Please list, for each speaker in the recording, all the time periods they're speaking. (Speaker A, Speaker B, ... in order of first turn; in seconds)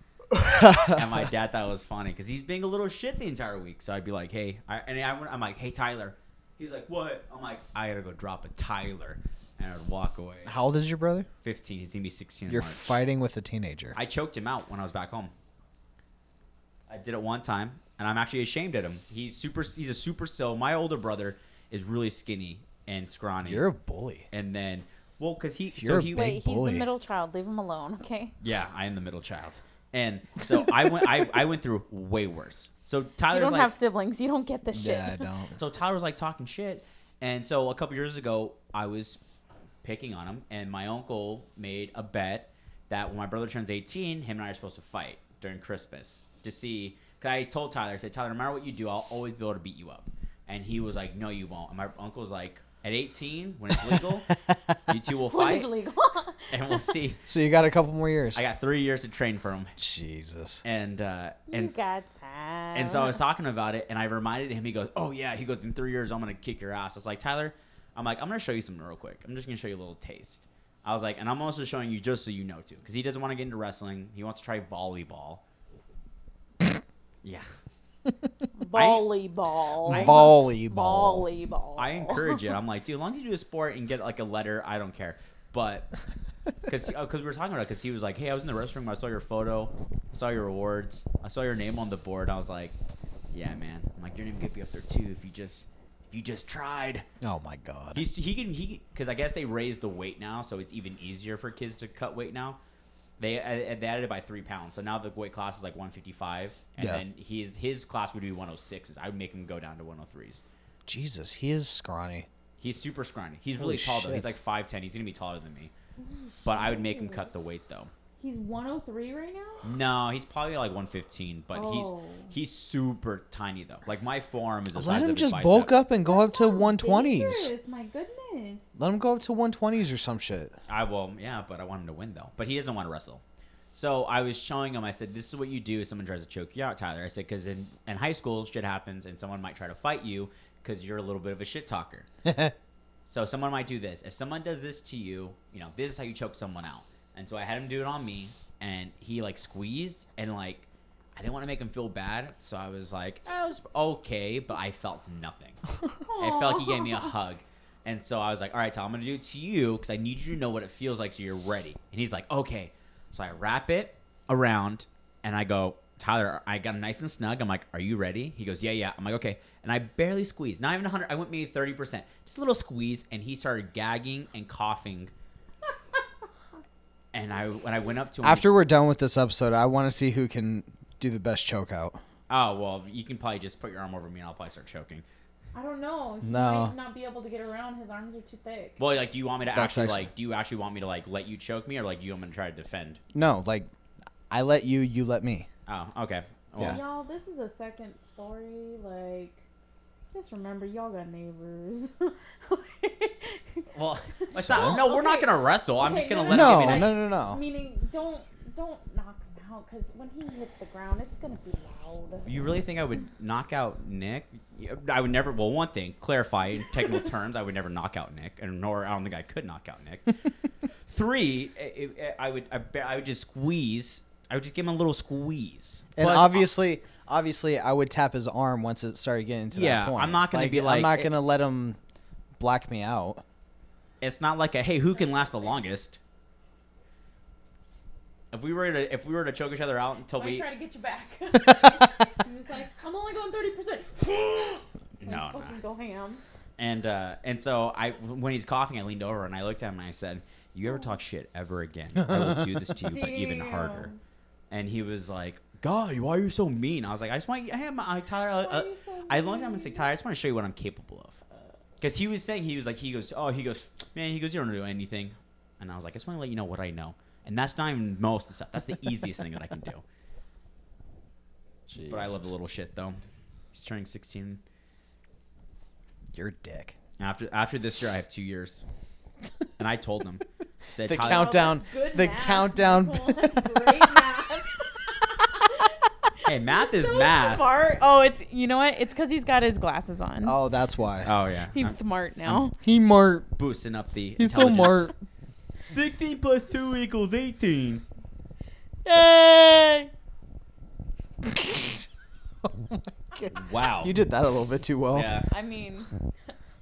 Speaker A: 0.3-1.2, 10.4-11.3, 12.5-14.0, 23.4-24.3, 25.8-26.9, 34.7-35.6, 57.3-58.4, 59.8-60.6, 79.9-81.3, 97.2-98.0, 106.8-107.0, 110.9-112.3, 113.6-114.3, 124.7-127.5, 128.8-130.5, 142.2-142.5, 178.2-182.0, 186.2-186.7, 189.5-190.1, 193.1-193.7, 194.3-195.5, 204.4-204.8, 206.3-207.4, 226.0-231.8, 232.4-233.2, 252.1-252.4, 271.7-272.3, 276.1-276.8, 280.9-283.9, 290.2-291.1, 292.3-293.3, 294.2-294.9, 301.3-301.9, 302.7-305.1
Speaker B: 0.9-10.6, 11.4-13.0, 13.9-15.3, 16.9-23.7, 24.3-26.3, 28.4-33.7, 35.6-39.2, 39.8-54.3, 54.9-55.7, 56.5-57.2, 58.4-59.8, 60.6-61.7, 62.7-75.4, 78.7-79.1, 79.9-80.3, 81.8-85.9, 86.7-92.8, 93.3-97.1, 97.9-102.6, 103.2-110.4, 112.6-115.7, 116.4-117.9, 119.6-125.8, 130.7-133.2, 133.7-142.1, 143.1-155.6, 156.2-175.1, 177.1-178.5, 182.3-185.1, 188.8-193.0, 195.7-196.8, 203.7-206.9, 212.3-220.2, 220.9-226.5, 229.5-231.1, 234.0-236.0, 238.3-240.5, 245.0-245.6, 246.6-253.9, 254.5-261.2, 261.8-269.8, 271.9-273.0, 273.5-274.4, 277.0-278.6, 279.6-281.4, 286.2-287.5, 291.1-291.8, 293.4-294.9, 295.7-297.8, 303.3-303.9, 304.9-305.3
Speaker C: 26.1-28.3, 33.3-35.2, 55.3-56.9, 61.5-63.2, 78.6-82.4, 116.0-117.3, 118.2-119.7, 121.5-122.3, 126.1-128.7, 156.0-157.1, 185.5-188.8, 196.6-199.4, 200.1-203.7, 204.2-212.3, 234.9-235.6, 240.1-246.2, 252.9-254.0, 258.4-259.9, 280.9-290.4, 291.5-292.6, 298.9-299.9, 305.3-305.9